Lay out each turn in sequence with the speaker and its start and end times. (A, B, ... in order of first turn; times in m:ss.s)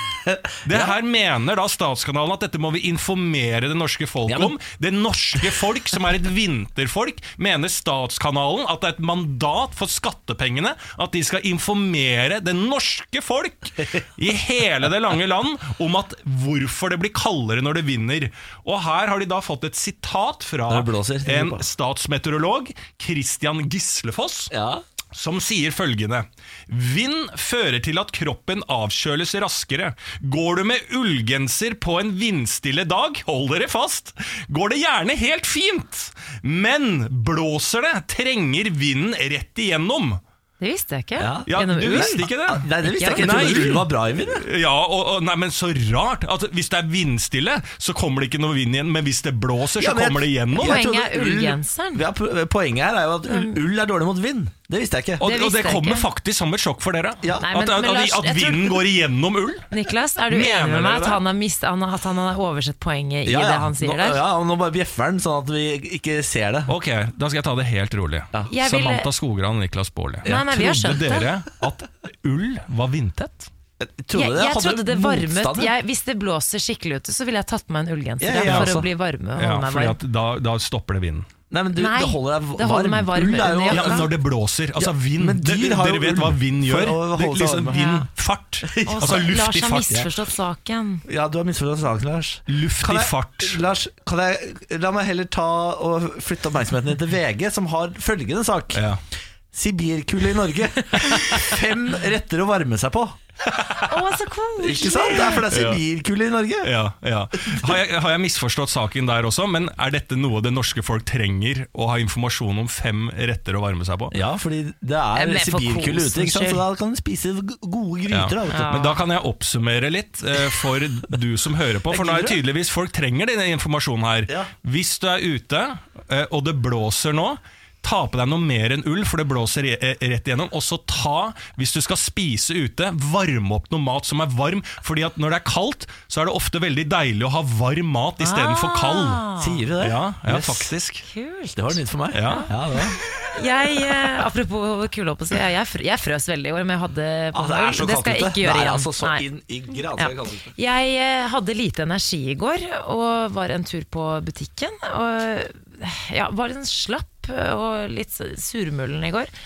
0:00.3-0:00.9 A
0:00.6-0:24.5 B
0:04.3-0:04.5 A
0:05.4-0:05.6 A
0:20.7-0:21.6 A
0:24.5-0:24.8 A
0:25.1-0:40.2 B
0:40.6-0:42.3 C
0:41.2-0:44.4 A
0:41.5-0:50.8 B
0:42.8-0:43.7 C
0:49.8-0:55.2 A
0:50.5-0:52.0 C
0:53.3-0:53.6 C
0:55.2-0:59.7 B
0:55.2-0:56.1 C
0:57.4-0:58.8 C
0:59.7-1:04.2 C
1:00.3-1:01.2 B
1:03.2-1:06.7 A
1:06.7-1:13.5 B
1:08.5-1:09.1 C
1:10.2-1:11.3 C
1:13.8-1:15.7 A
1:14.1-1:20.0 C
1:18.2-1:18.9 A
1:18.4-1:18.8 B
1:19.4-1:21.3 B
1:21.5-1:24.1 A
1:21.7-1:24.0 C
1:23.7-1:30.1 B
1:24.8-1:27.8 A
1:27.7-1:28.1 C
1:28.6-1:29.2 A
1:28.8-1:31.0 C
1:31.0-1:38.8 A
1:32.5-1:33.6 B
1:38.7-1:39.0 B
1:39.5-1:43.2 A
1:41.2-1:41.5 B
1:43.8-1:45.4 C
1:44.6-1:46.7 A
1:45.5-1:45.8 B
1:46.6-1:54.2 B
1:47.4-1:47.8 A
1:54.1-1:58.9 A
1:55.1-1:56.6 C
1:58.1-2:19.2 B
1:58.5-1:59.0 C
2:01.9-2:02.4 A
2:18.2-2:19.6 C
2:19.4-2:20.7 A
2:19.8-2:21.0 B
2:21.0-2:22.5 C
2:21.5-2:23.0 A
2:22.1-2:22.5 B
2:23.3-2:29.2 C
2:27.3-2:30.5 A
2:30.0-2:39.3 C